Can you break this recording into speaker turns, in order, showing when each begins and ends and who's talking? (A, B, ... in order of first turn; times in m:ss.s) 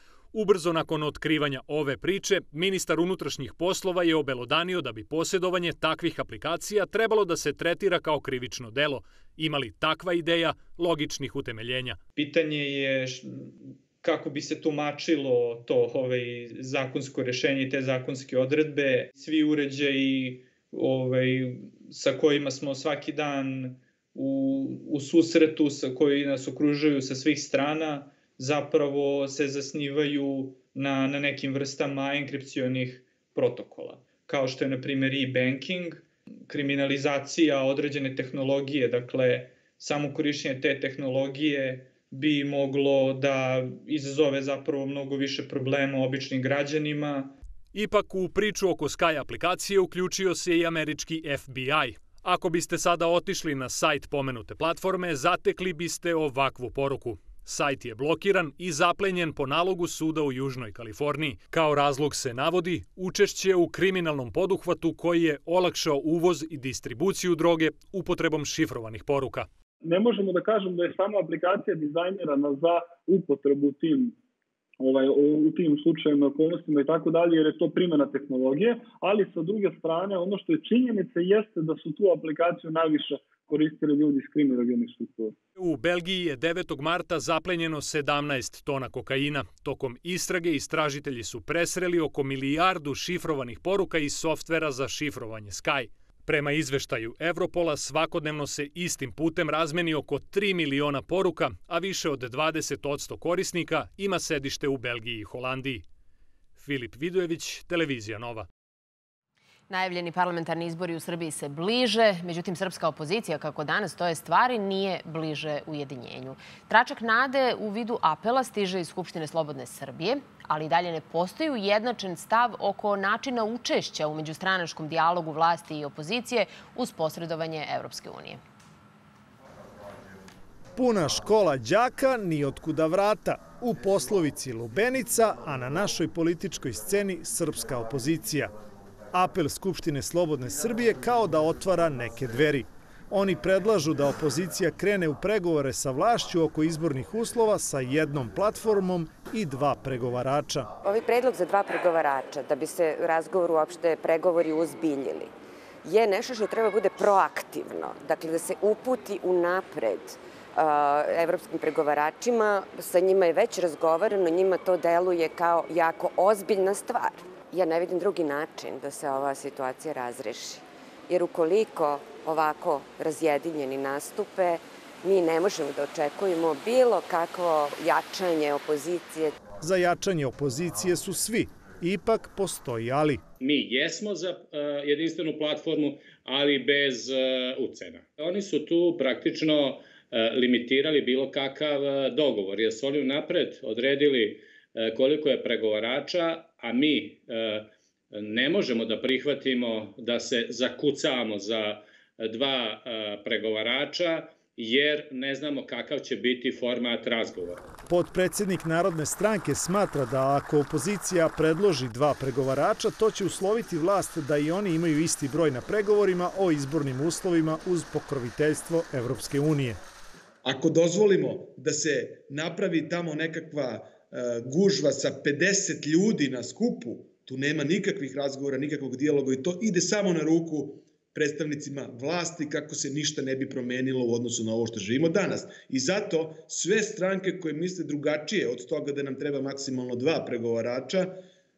0:00.3-0:12.0 A
0:12.2-0:47.3 B
0:47.7-1:09.5 A
1:09.8-1:14.2 C
1:14.8-1:25.4 C
1:25.6-1:45.8 A
1:46.6-1:48.5 A
1:49.7-2:08.4 D
2:10.8-2:18.5 E
2:19.1-2:30.7 E
2:30.8-2:35.3 F
2:35.8-2:59.4 F
2:59.6-3:03.2 E
3:03.4-3:27.7 G
3:27.9-3:39.8 E
3:40.4-4:01.2 H